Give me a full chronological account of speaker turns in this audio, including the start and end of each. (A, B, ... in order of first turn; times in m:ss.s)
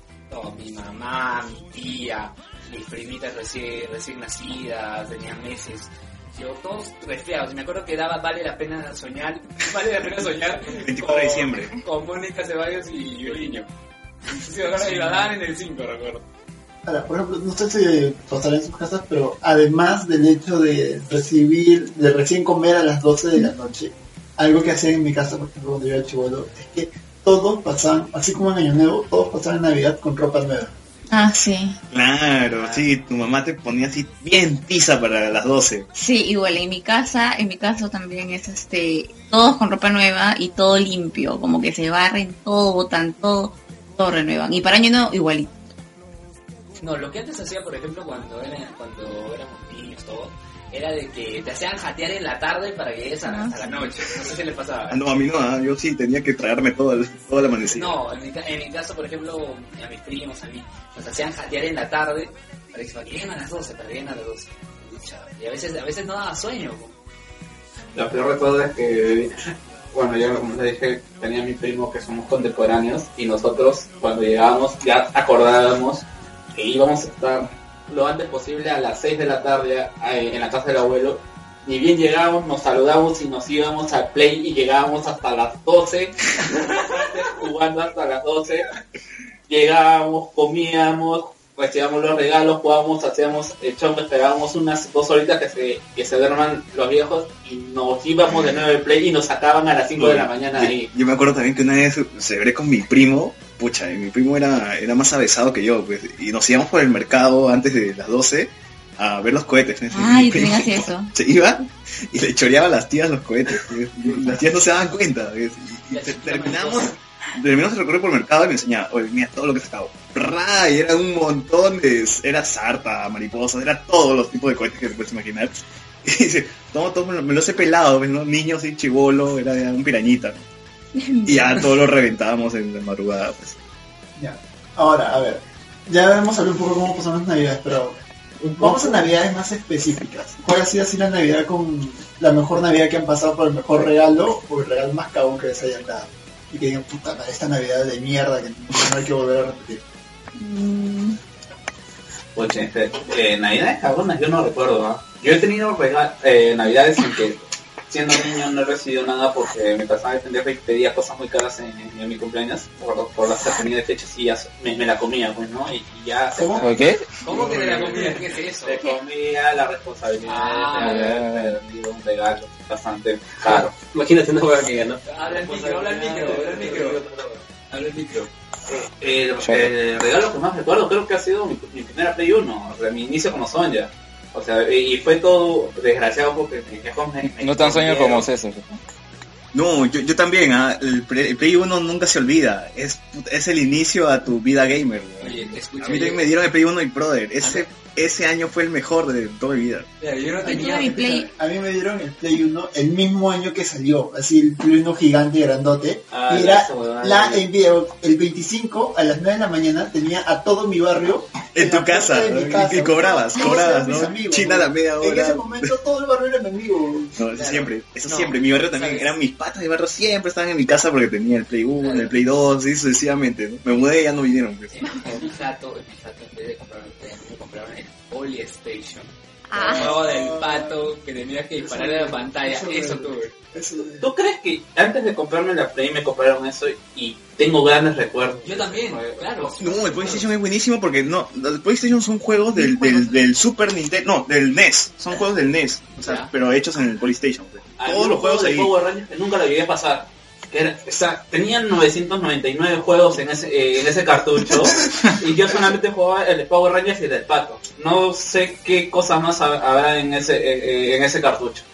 0:00.3-0:13.7 A
0:10.7-0:11.8 B
0:14.3-0:16.2 A
0:16.8-0:30.7 C
0:31.1-0:31.8 D
0:31.9-0:35.9 B
0:32.5-0:32.8 A
0:36.0-0:45.5 D
0:46.8-0:55.0 A
0:53.3-0:53.8 D
0:54.9-0:58.0 B
0:57.7-1:07.0 A
1:08.0-1:09.3 E
1:09.9-1:28.7 E
1:29.5-1:40.9 E
1:40.0-2:10.4 B
1:49.9-1:51.1 D
1:55.9-1:57.0 A
2:11.0-2:11.6 D
2:11.3-2:13.6 B
2:14.2-2:18.0 C
2:18.4-2:19.1 F
2:18.6-2:29.8 C
2:30.4-2:31.2 D
2:32.4-2:46.9 E
2:46.4-2:46.7 C
2:46.6-2:47.1 G
2:47.2-2:48.8 A
2:48.7-2:53.7 E
2:50.2-2:51.1 A
2:50.8-2:51.6 G
2:53.4-2:57.4 F
2:55.1-2:57.0 A
2:57.7-2:58.3 A
2:58.7-3:08.3 E
2:59.4-2:59.7 G
3:07.2-3:08.8 G
3:09.5-3:19.9 B
3:15.2-3:16.3 A
3:17.4-3:17.7 A
3:20.0-3:21.3 A
3:20.4-3:21.3 D
3:20.5-3:37.2 C
3:26.1-3:27.5 F
3:31.6-3:35.7 B
3:37.2-3:45.0 B
3:37.3-3:39.2 A
3:41.8-3:42.1 A
3:44.7-3:49.1 A
3:49.5-3:50.0 D
3:49.6-3:50.9 C
3:49.7-3:53.3 A
3:51.6-3:54.1 C
3:54.0-3:59.7 E
3:58.4-4:00.3 A
3:59.6-4:08.7 B
4:06.0-4:06.3 A
4:07.8-4:21.7 E